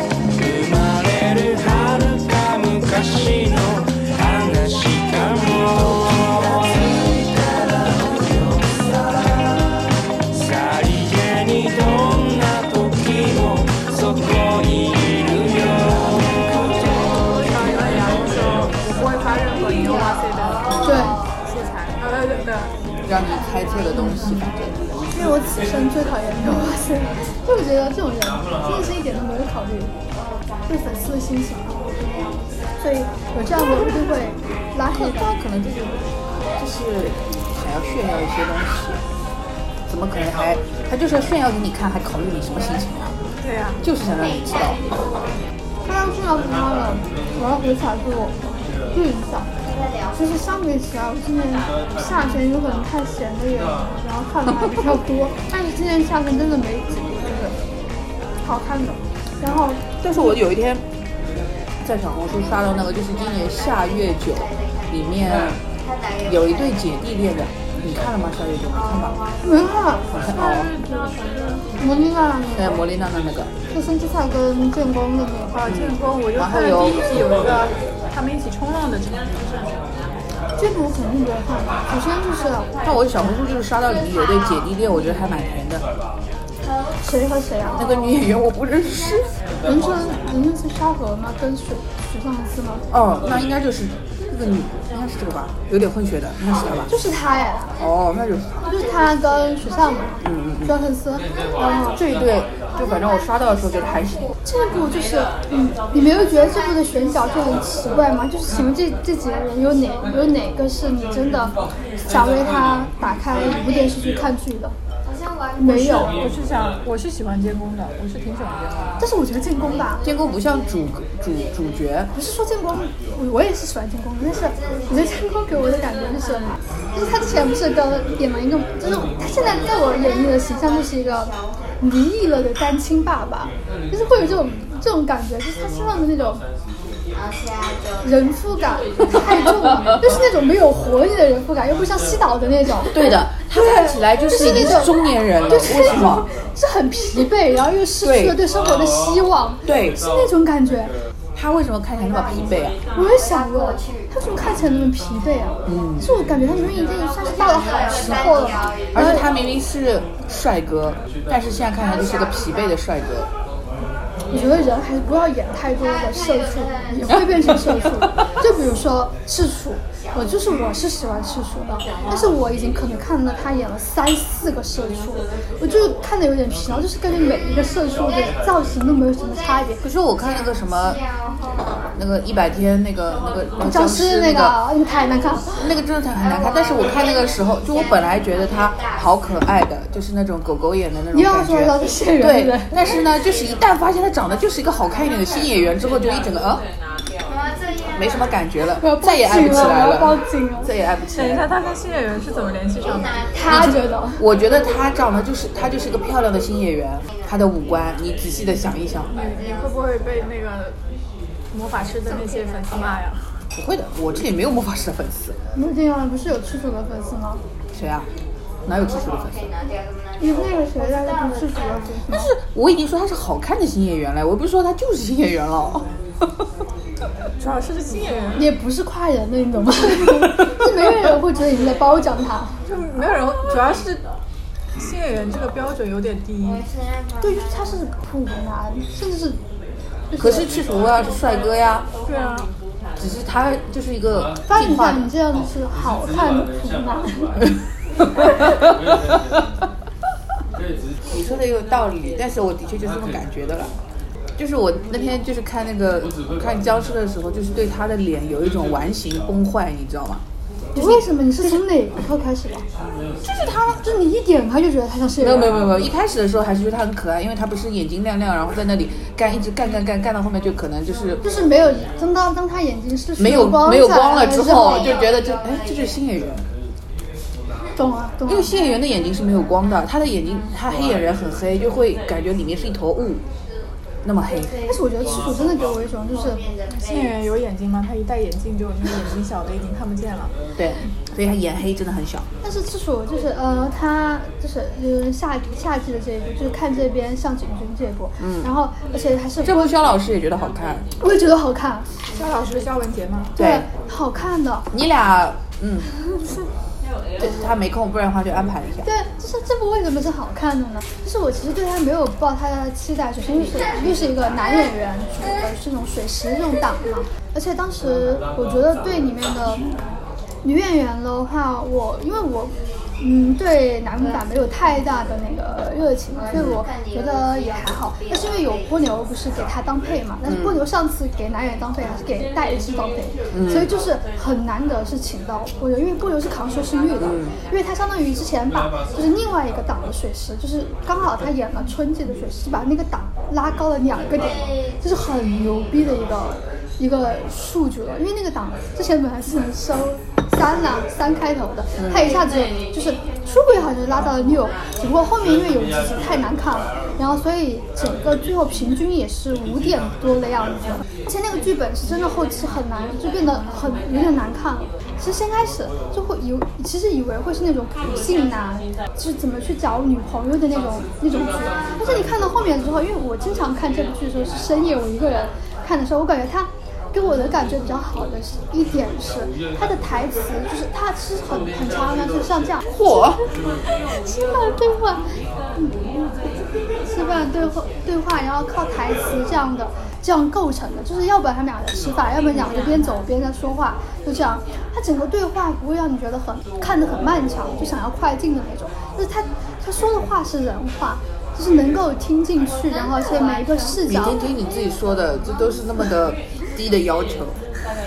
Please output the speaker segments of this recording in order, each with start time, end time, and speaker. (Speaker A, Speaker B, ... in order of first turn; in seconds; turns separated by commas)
Speaker A: 0.3-7.4, Speaker A: 8.5-8.8, Speaker A: 10.3-15.6, Speaker B: 16.6-22.8, Speaker C: 20.8-21.2, Speaker D: 23.1-24.8, Speaker C: 25.1-29.9, Speaker C: 30.7-32.3, Speaker C: 32.8-35.4, Speaker D: 34.9-39.0, Speaker D: 39.9-43.2, Speaker B: 43.4-43.8, Speaker D: 43.8-44.9, Speaker C: 45.9-49.5, Speaker C: 50.1-57.6, Speaker B: 58.4-59.0, Speaker C: 59.4-60.4, Speaker D: 59.5-60.8, Speaker D: 61.8-65.6, Speaker D: 66.2-69.2, Speaker C: 69.4-70.3, Speaker B: 70.2-71.7, Speaker D: 70.3-70.7, Speaker C: 71.8-72.8, Speaker D: 72.5-73.5, Speaker C: 73.7-75.7, Speaker B: 75.5-80.1, Speaker D: 75.7-77.1, Speaker C: 80.6-82.7, Speaker D: 82.8-85.8, Speaker C: 87.0-87.9, Speaker D: 87.8-89.3, Speaker C: 89.6-92.8, Speaker D: 92.9-96.9, Speaker C: 96.9-97.7, Speaker D: 97.8-98.5, Speaker C: 98.6-102.0, Speaker D: 100.2-100.8, Speaker D: 101.9-104.3, Speaker C: 104.5-114.8, Speaker C: 115.6-116.2, Speaker B: 115.8-119.0, Speaker C: 119.0-120.1, Speaker D: 120.0-122.1, Speaker C: 122.1-136.4, Speaker C: 138.0-143.1, Speaker D: 142.9-146.3, Speaker C: 143.7-144.9, Speaker C: 145.5-151.0, Speaker D: 148.0-148.4, Speaker D: 149.7-150.0, Speaker D: 151.3-152.8, Speaker C: 152.9-159.3, Speaker D: 155.7-156.1, Speaker D: 158.9-163.3, Speaker C: 164.3-179.8, Speaker D: 179.8-181.0, Speaker D: 182.0-184.6, Speaker C: 183.6-185.7, Speaker D: 185.6-196.6, Speaker C: 191.1-192.8, Speaker D: 197.9-201.5, Speaker C: 198.8-200.7, Speaker B: 201.1-203.6, Speaker C: 203.3-204.2, Speaker D: 203.5-209.3, Speaker B: 209.1-210.8, Speaker B: 211.5-213.4, Speaker D: 213.5-215.4, Speaker C: 215.6-217.4, Speaker D: 217.7-218.1, Speaker D: 218.7-219.5, Speaker C: 220.2-222.3, Speaker D: 222.1-225.9, Speaker B: 227.4-228.5, Speaker C: 228.3-232.6, Speaker B: 232.6-234.0, Speaker B: 234.8-236.7, Speaker C: 237.2-239.4, Speaker C: 240.1-240.5, Speaker D: 240.2-241.9, Speaker B: 242.1-242.5, Speaker D: 243.0-245.2, Speaker C: 244.5-247.4, Speaker D: 251.1-253.7, Speaker D: 254.4-260.2, Speaker C: 260.7-262.7, Speaker D: 260.8-261.1, Speaker C: 263.3-265.5, Speaker D: 265.2-271.2, Speaker C: 271.2-275.1, Speaker D: 273.2-276.5, Speaker C: 277.8-278.6, Speaker D: 278.2-283.2, Speaker D: 284.1-284.6, Speaker C: 284.6-286.5, Speaker B: 286.8-290.3, Speaker D: 290.6-292.3, Speaker C: 292.4-299.8, Speaker D: 298.2-298.5, Speaker D: 299.4-300.9, Speaker C: 301.0-301.9, Speaker B: 302.1-303.4, Speaker D: 303.4-303.7, Speaker C: 303.4-304.7, Speaker D: 304.7-305.9, Speaker D: 307.2-308.9, Speaker C: 308.8-319.7, Speaker C: 320.4-386.2, Speaker D: 326.4-326.6, Speaker D: 330.3-330.6, Speaker D: 333.3-333.7, Speaker D: 337.0-337.4, Speaker D: 351.8-352.2, Speaker D: 382.7-383.2, Speaker C: 386.8-404.2, Speaker D: 403.8-407.4